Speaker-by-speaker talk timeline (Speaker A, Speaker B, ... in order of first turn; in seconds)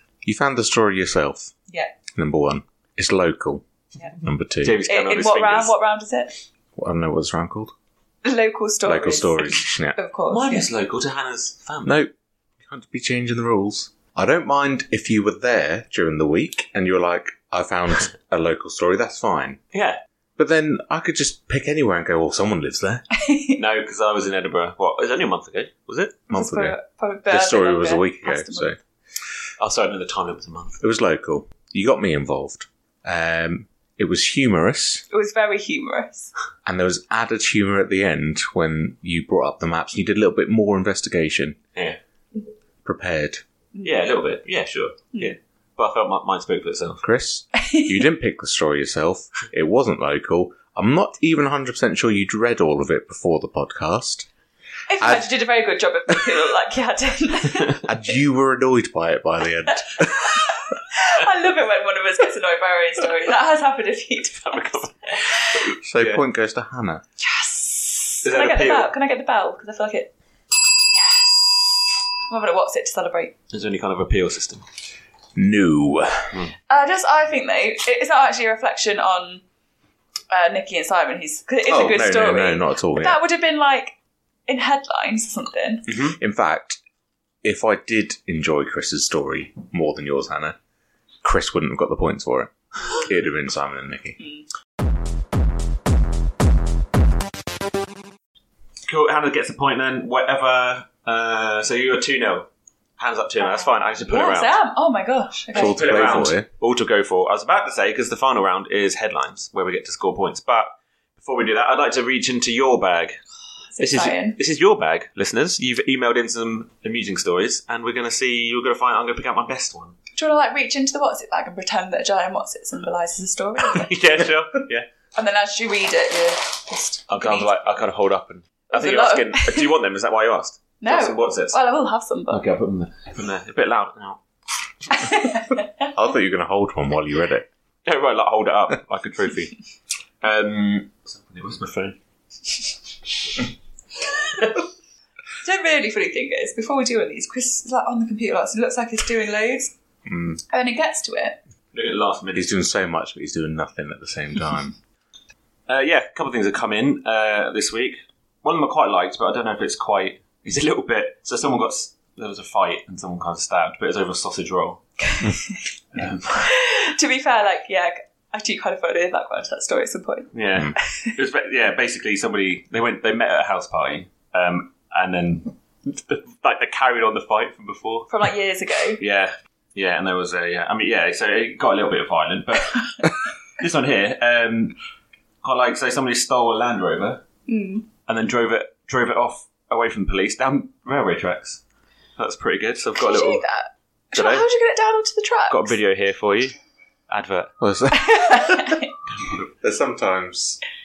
Speaker A: 0.2-1.5, 2.1-3.6, 4.2-4.8, 6.8-7.7, 8.8-10.0, 11.8-19.6, 20.4-23.1, 26.3-26.8, 27.3-28.8, 30.8-35.0, 36.6-41.6, 42.9-43.4, 47.0-54.3, 55.0-55.3, 57.8-60.6, 65.8-67.0, 75.4-76.4, 81.7-83.2, 85.9-86.8, 87.4-90.6, 91.2-94.2, 105.5-106.5, 135.9-137.4, 150.1-150.4, 152.3-154.8, 197.6-198.8, 199.6-200.6
Speaker B: 4.6-5.8, 10.3-12.0, 19.7-20.0, 23.6-26.2, 29.6-30.8, 43.8-47.0, 64.4-66.2, 68.2-68.9, 73.5-74.6, 98.8-104.5, 105.6-113.2, 113.8-119.9, 123.6-124.9, 127.1-131.6, 132.3-134.2, 137.9-139.6, 140.2-142.0, 144.1-144.6, 151.7-152.5, 155.7-164.8, 165.9-166.5, 170.3-178.1, 179.0-184.8, 185.4-187.2, 188.1-191.6, 192.2-193.4, 194.1-194.5, 195.5-196.6, 197.1-197.5
Speaker C: 4.8-6.4, 8.2-10.7, 23.1-23.6, 26.3-28.7, 35.1-36.3, 43.8-44.1, 47.6-47.9, 54.9-57.9, 59.7-65.7, 67.2-70.1, 70.9-73.3, 76.7-79.4, 80.3-84.0, 84.5-86.0, 94.2-94.4, 103.4-106.3, 113.7-114.4, 120.1-123.9, 125.1-127.5, 128.7-129.8, 130.8-132.4, 134.9-135.8, 145.4-149.7, 150.5-151.4, 165.1-165.6, 166.4-171.2, 178.1-179.0, 187.5-187.9, 193.0-195.7, 197.9-198.9